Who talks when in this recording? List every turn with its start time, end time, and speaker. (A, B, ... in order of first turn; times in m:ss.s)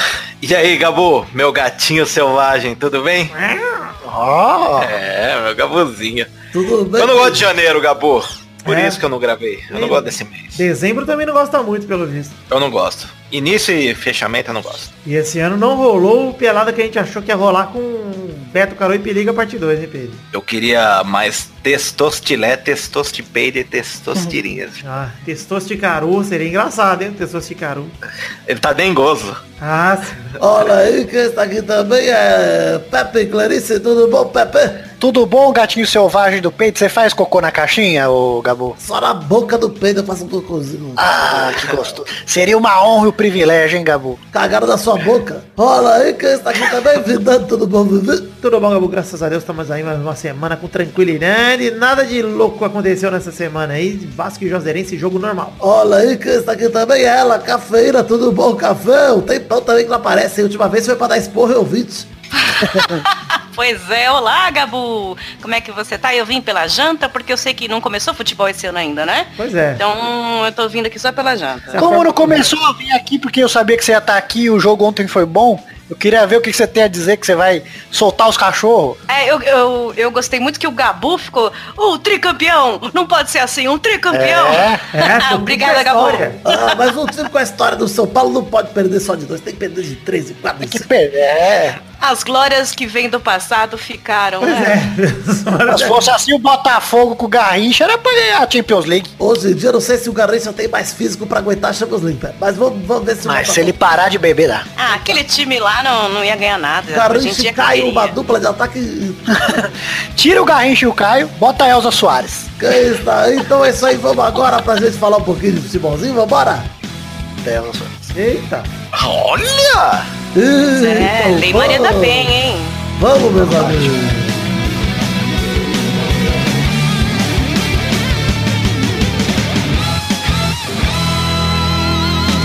0:00.4-0:03.3 A
0:03.3-0:03.9 B
0:04.0-0:04.9 C
0:04.8-0:06.3 A
0:06.5-0:07.5 D
0:07.0-0:10.6 A
0:08.6-0:09.0 B
0:09.7-0:12.4 B
0:12.5-0:14.9 A
0:15.0-0:20.2 B
0:20.3-0:24.8 A
0:24.8-0:28.0 B
0:28.5-0:29.4 A
0:29.6-0:30.4 B
0:30.4-0:34.9 D
0:35.0-0:38.8 C
0:38.8-0:42.0 D
0:41.0-0:44.2 C
0:44.3-0:48.4 D
0:48.4-0:55.6 B
0:55.6-1:02.1 D
1:02.4-1:12.0 E
1:02.7-1:03.0 C
1:09.4-1:09.8 B
1:11.7-1:12.5 B
1:11.8-1:19.0 C
1:19.1-1:26.8 E
1:24.1-1:24.9 C
1:24.9-1:26.4 B
1:26.4-1:30.8 D
1:30.6-1:31.8 C
1:32.0-1:34.8 E
1:34.4-1:36.1 B
1:35.7-1:39.1 C
1:39.2-1:43.7 D
1:43.2-1:44.7 C
1:44.8-1:48.2 E
1:46.9-1:49.7 D
1:49.3-1:52.7 C
1:52.6-1:56.7 D
1:57.4-1:58.1 C
1:58.2-1:58.7 B
1:58.9-2:00.1 A
2:00.4-2:02.3 D
2:00.7-2:02.8 E
2:03.0-2:04.4 D